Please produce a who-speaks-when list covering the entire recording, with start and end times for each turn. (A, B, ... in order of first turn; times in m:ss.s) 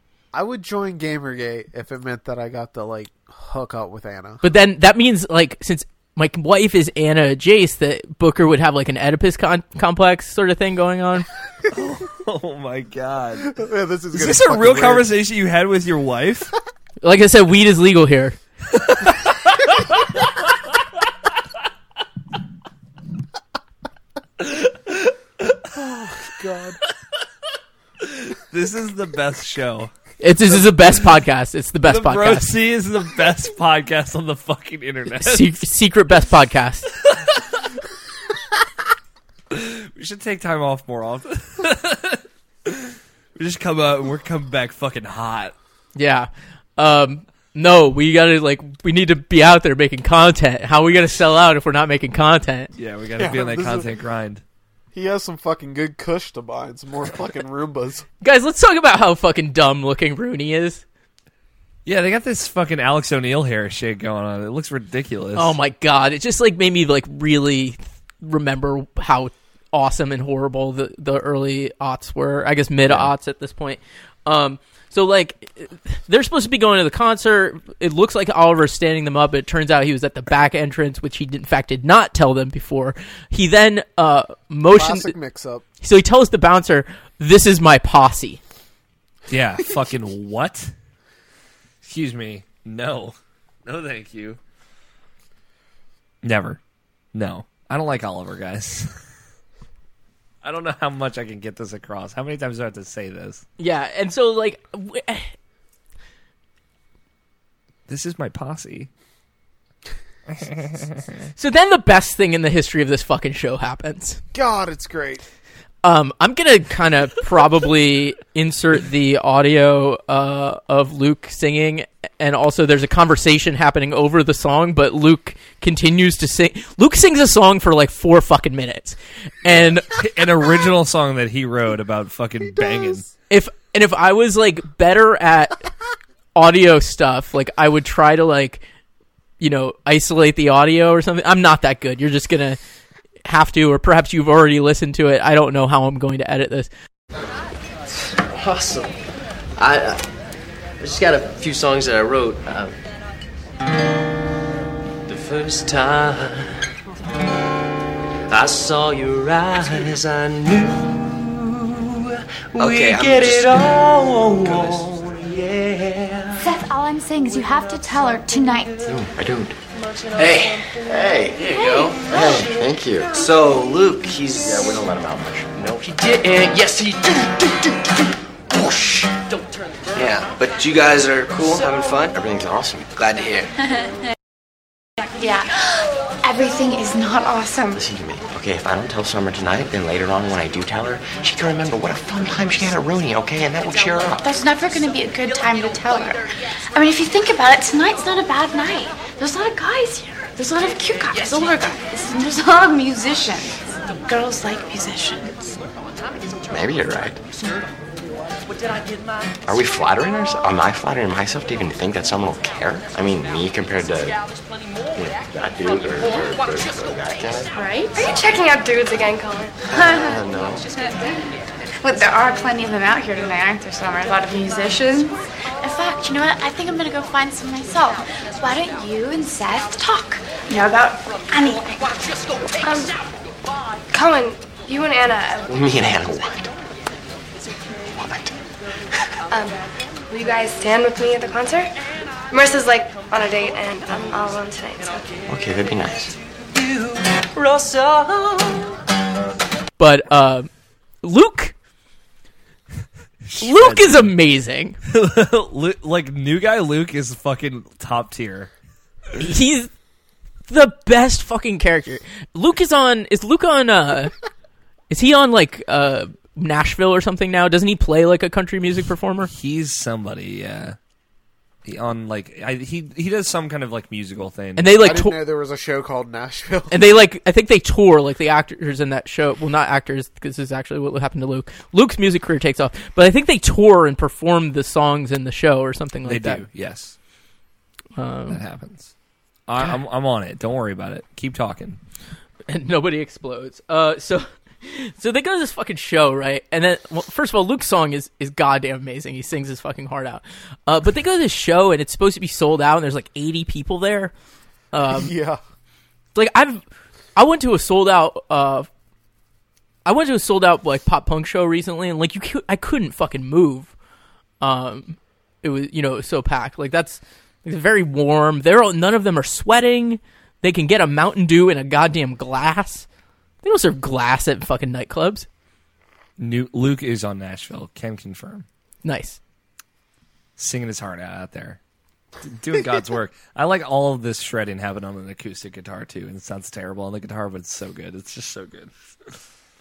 0:00.3-0:04.4 A
0:04.4-0:11.3 B
0:11.7-0:13.5 C
0:13.4-0:15.1 A
0:14.1-0:16.5 C
0:17.0-0:18.4 B
0:18.8-0:20.2 C
0:24.4-0:25.5 C
0:25.7-0:26.8 A
0:28.0-0:29.9 C
0:30.2-0:32.5 B
0:30.5-0:30.9 C
0:31.8-0:35.6 C
0:35.2-0:36.9 B
0:37.0-0:37.6 C
0:39.5-0:45.5 C
0:46.0-0:52.7 B
0:52.8-0:54.4 C
0:53.2-0:53.9 A
0:54.9-0:58.0 A
0:58.2-1:00.8 B
1:01.8-1:05.5 C
1:05.3-1:25.1 B
1:12.8-1:13.1 C
1:24.7-1:25.6 A
1:25.8-1:28.4 B
1:29.3-1:30.7 C
1:31.8-1:34.4 C
1:36.2-1:36.6 C
1:37.1-1:38.9 C
1:40.4-1:43.4 C
1:43.6-1:45.3 B
1:47.9-1:48.9 C
1:50.3-1:51.0 C
1:51.4-1:54.2 B
1:54.3-1:55.2 A
1:55.8-2:09.9 B
2:09.4-2:13.1 C
2:12.5-2:13.0 A
2:13.3-2:15.6 B
2:16.3-2:18.6 B
2:19.4-2:22.6 B
2:23.2-2:26.7 B
2:28.2-2:29.0 D
2:29.6-2:30.0 D
2:30.8-2:32.7 D
2:35.1-2:36.6 D
2:38.3-2:46.5 D
2:42.7-2:43.2 E
2:46.4-2:48.9 F
2:48.9-2:49.6 E
2:50.2-2:52.5 D
2:50.8-2:51.4 E
2:52.1-2:53.1 E
2:53.1-2:54.8 D
2:54.4-2:55.5 E
2:55.5-2:57.9 D
2:58.5-2:59.2 D
2:59.9-3:02.1 D
3:02.1-3:02.9 E
3:03.0-3:03.5 D
3:05.2-3:07.8 F
3:07.7-3:14.2 E
3:14.2-3:16.2 F
3:16.7-3:25.6 F
3:26.5-3:27.2 E
3:29.4-3:34.2 E
3:34.9-3:37.5 E
3:37.6-3:38.0 F
3:37.6-3:39.5 G
3:39.7-3:40.7 E
3:39.8-3:40.1 F
3:41.8-3:52.0 F
3:52.6-3:52.9 G
3:53.9-3:55.5 G
3:55.5-3:56.5 E
3:57.9-3:58.3 E
3:59.3-3:59.6 G
4:00.1-4:01.7 G
4:02.3-4:05.0 G
4:05.3-4:06.2 E
4:06.5-4:08.7 D
4:09.8-4:10.5 B
4:11.0-4:11.5 B
4:13.2-4:14.1 C
4:13.4-4:14.8 B
4:14.8-4:18.5 C
4:19.2-4:19.7 B
4:20.5-4:24.1 B
4:24.9-4:29.3 B
4:29.3-4:30.8 C
4:31.6-4:34.8 C
4:34.6-4:35.2 B
4:34.8-4:36.8 A
4:36.7-4:46.4 B
4:46.0-4:46.9 C
4:48.0-4:48.4 B
4:48.3-4:48.9 C
4:49.5-4:51.8 C
4:52.5-5:04.1 B
5:04.7-5:05.1 B
5:04.8-5:05.4 A
5:06.1-5:06.6 B
5:07.1-5:08.7 B
5:09.8-5:13.7 B
5:14.4-5:22.8 B
5:23.4-5:25.3 B
5:26.2-5:28.4 C
5:28.8-5:29.2 B
5:30.4-5:31.6 C
5:32.2-5:39.2 C